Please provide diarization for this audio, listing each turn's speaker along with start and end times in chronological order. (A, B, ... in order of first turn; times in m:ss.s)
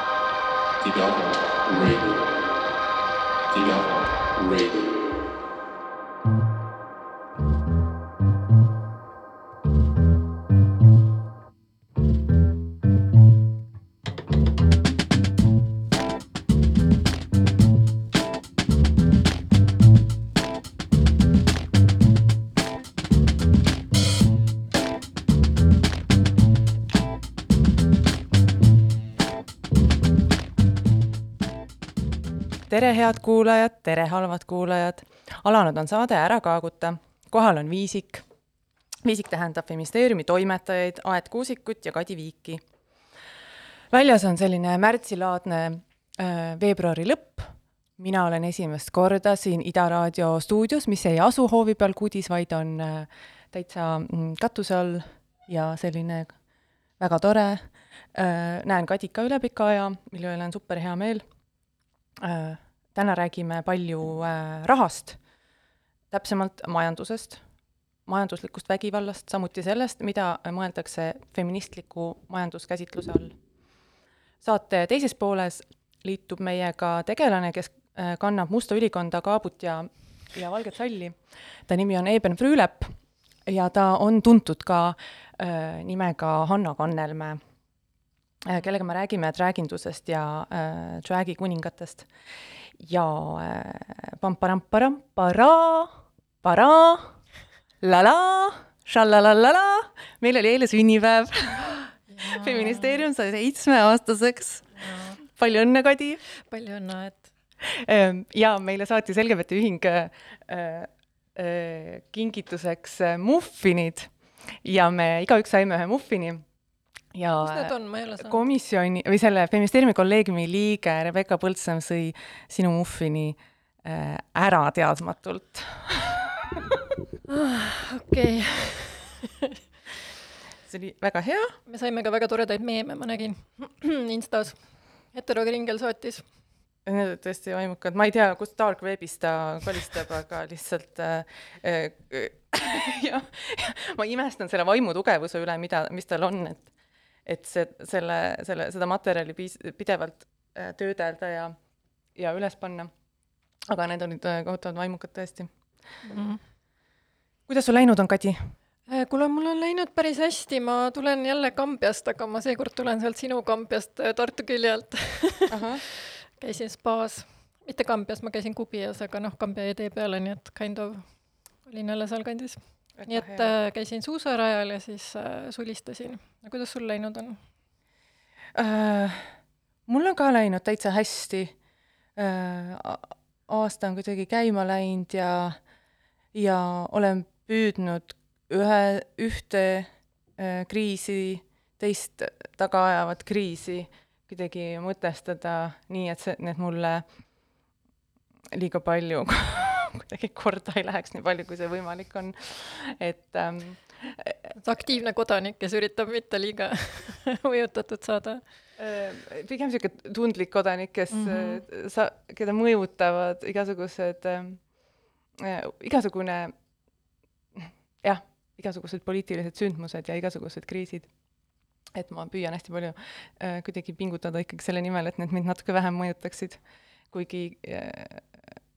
0:00.8-0:02.2 A
0:03.5-0:04.9 A
0:32.7-0:38.2 B
0:39.0-0:42.6 B
0:43.9-0:56.3 B
0:57.0-1:01.2 B
1:02.2-1:05.2 B
1:06.1-1:07.4 B
1:08.0-1:13.4 B
1:14.4-1:27.4 B
1:28.4-1:32.1 B
1:32.8-1:37.2 B
1:37.8-1:46.2 B
1:42.1-1:43.0 C
1:44.8-1:45.2 C
1:46.4-1:47.3 C
1:47.6-1:56.4 B
1:57.1-2:06.8 B
1:57.4-1:58.4 C
2:07.3-2:09.5 C
2:10.7-2:11.6 B
2:11.7-2:14.6 C
2:15.1-2:16.2 C
2:16.8-2:26.7 B
2:27.2-2:31.6 B
2:32.2-2:32.9 B
2:33.7-2:35.5 B
2:36.0-2:36.4 C
2:37.5-2:38.5 B
2:38.9-2:51.0 C
2:45.5-2:45.8 B
2:51.6-2:57.4 C
2:53.0-2:53.5 B
2:58.5-2:59.3 B
2:59.8-3:01.5 B
3:02.2-3:05.6 B
3:06.3-3:17.0 B
3:18.5-3:24.5 B
3:24.6-3:28.4 C
3:28.8-3:34.6 B
3:31.1-3:31.6 C
3:35.4-3:36.5 B
3:37.5-3:41.1 B
3:41.9-3:48.5 B